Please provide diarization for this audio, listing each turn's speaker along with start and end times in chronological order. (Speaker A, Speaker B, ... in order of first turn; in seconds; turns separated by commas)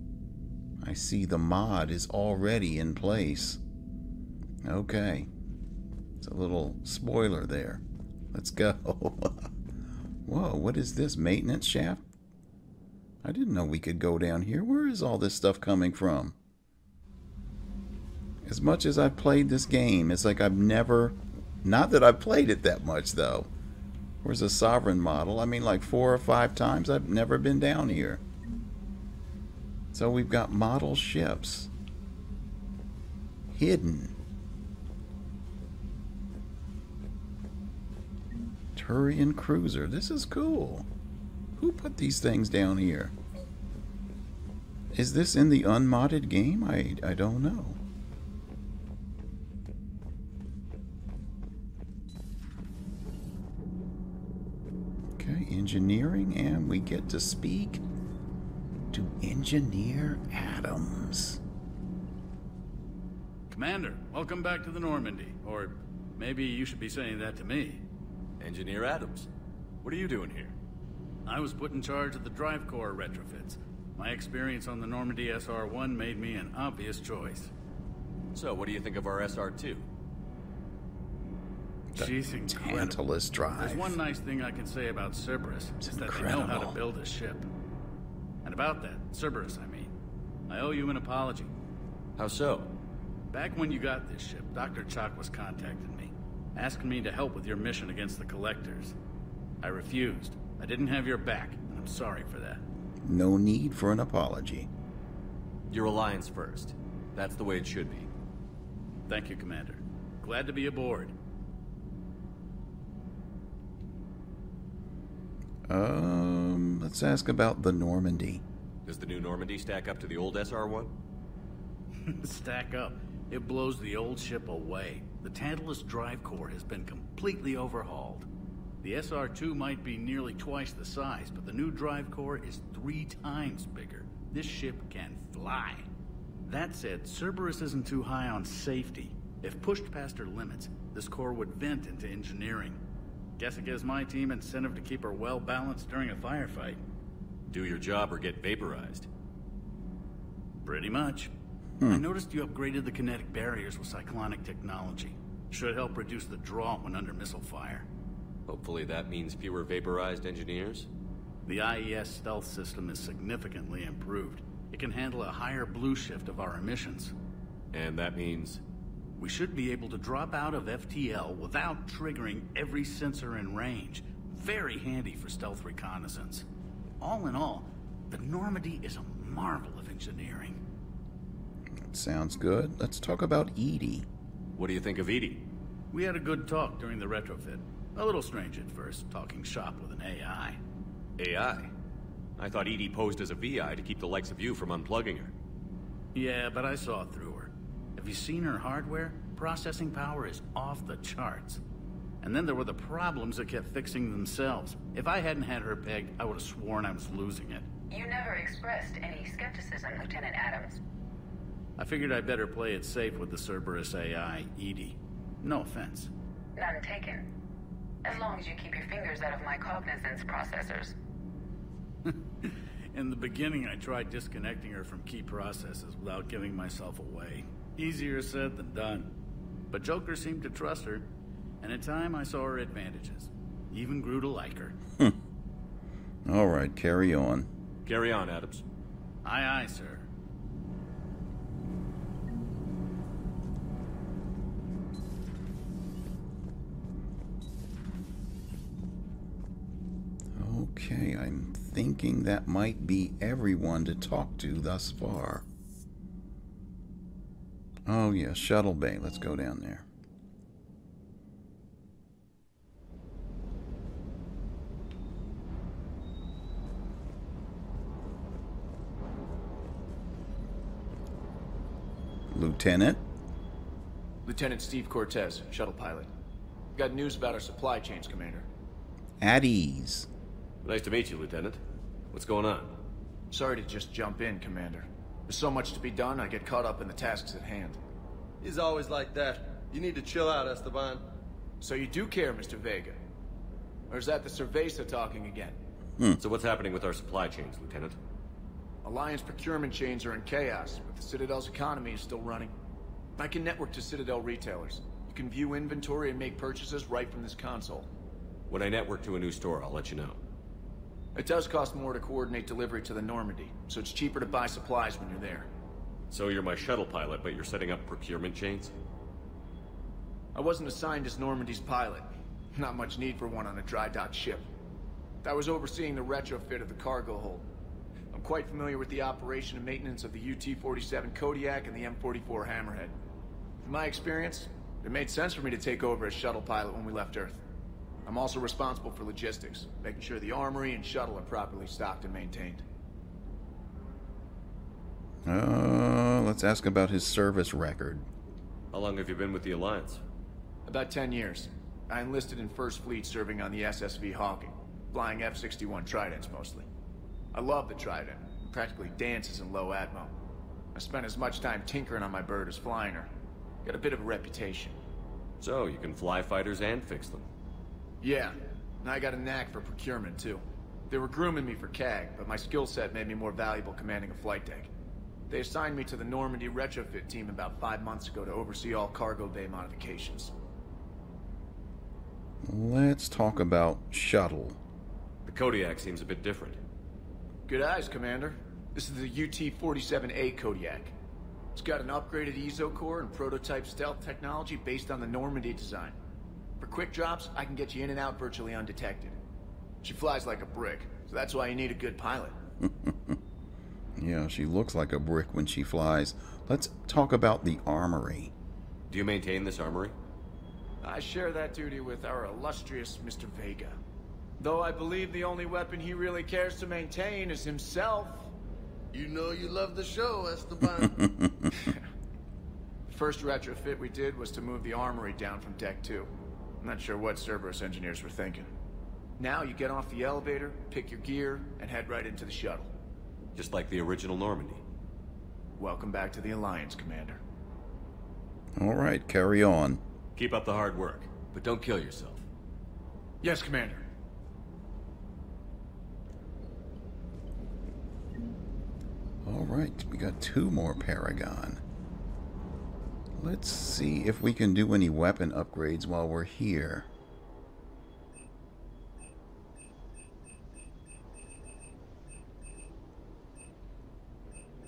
Speaker A: 0.8-3.6, Speaker A: 4.6-5.3, Speaker A: 6.2-9.5, Speaker A: 10.2-12.0, Speaker A: 13.2-16.4, Speaker A: 18.4-23.5, Speaker A: 24.2-28.2, Speaker A: 29.9-31.7, Speaker A: 33.5-34.1, Speaker A: 38.7-40.9, Speaker A: 41.6-43.1, Speaker A: 44.9-47.8, Speaker A: 55.2-57.8, Speaker A: 58.9-61.4, Speaker B: 63.5-67.8, Speaker C: 68.4-69.3, Speaker C: 69.8-70.5, Speaker B: 71.2-77.5, Speaker C: 78.3-79.8, Speaker B: 81.9-83.0, Speaker A: 81.9-84.0, Speaker B: 83.5-87.5, Speaker A: 85.8-86.8, Speaker B: 88.4-89.9, Speaker B: 90.5-91.5, Speaker C: 92.2-92.7, Speaker B: 93.3-99.0, Speaker B: 99.6-102.6, Speaker A: 103.0-104.7, Speaker C: 105.7-108.1, Speaker B: 109.1-111.1, Speaker A: 115.7-118.4, Speaker C: 118.8-120.9, Speaker B: 122.1-128.3, Speaker B: 128.8-135.9, Speaker B: 136.4-142.8, Speaker B: 143.4-146.8, Speaker C: 147.5-149.1, Speaker B: 150.6-151.3, Speaker B: 151.8-157.9, Speaker C: 158.5-160.9, Speaker B: 161.5-167.1, Speaker C: 167.7-168.6, Speaker B: 169.2-176.4, Speaker B: 177.0-180.6, Speaker A: 181.8-184.1, Speaker C: 184.6-185.5, Speaker B: 185.9-190.6, Speaker C: 191.2-191.7, Speaker C: 192.4-195.3, Speaker B: 196.1-201.6, Speaker B: 202.2-207.7, Speaker D: 207.9-210.8, Speaker B: 211.8-216.1, Speaker D: 216.6-217.3, Speaker D: 218.0-220.9, Speaker B: 222.0-229.1, Speaker B: 229.7-231.1, Speaker B: 231.6-234.8, Speaker A: 236.2-237.5, Speaker C: 237.8-238.6, Speaker B: 239.2-240.1, Speaker A: 250.3-255.4, Speaker A: 257.9-259.9, Speaker A: 272.3-273.0, Speaker E: 274.2-276.1, Speaker E: 276.7-278.5, Speaker A: 279.2-280.1, Speaker C: 280.6-281.6, Speaker C: 282.1-282.7, Speaker E: 283.3-287.8, Speaker F: 288.4-291.0, Speaker E: 291.6-293.0, Speaker E: 293.9-295.6, Speaker C: 296.2-297.9, Speaker E: 298.8-302.5, Speaker E: 303.2-307.9, Speaker C: 308.5-310.2, Speaker E: 311.1-315.5, Speaker C: 316.1-318.7, Speaker E: 320.3-324.4, Speaker E: 325.2-327.5, Speaker E: 328.1-332.9, Speaker E: 333.6-337.4, Speaker E: 338.0-342.6, Speaker A: 345.2-348.1, Speaker C: 348.7-350.0, Speaker E: 350.7-356.7, Speaker E: 357.3-360.1, Speaker E: 360.7-363.1, Speaker E: 363.6-364.8, Speaker C: 365.4-367.3, Speaker E: 368.0-374.7, Speaker E: 375.3-380.3, Speaker A: 382.4-384.6, Speaker C: 385.2-386.6, Speaker E: 387.5-390.9, Speaker E: 391.5-396.0, Speaker E: 396.6-399.2, Speaker E: 399.8-402.3, Speaker A: 402.6-403.2, Speaker A: 404.0-408.3, Speaker C: 408.9-409.9, Speaker E: 410.8-413.8, Speaker E: 414.4-418.3, Speaker F: 418.9-421.0, Speaker A: 420.9-421.6, Speaker E: 422.9-428.5, Speaker E: 429.2-432.7, Speaker C: 433.3-434.6, Speaker E: 435.6-437.2, Speaker A: 438.6-439.8, Speaker C: 440.1-442.2, Speaker E: 443.2-443.8, Speaker A: 449.2-451.6, Speaker A: 453.2-456.9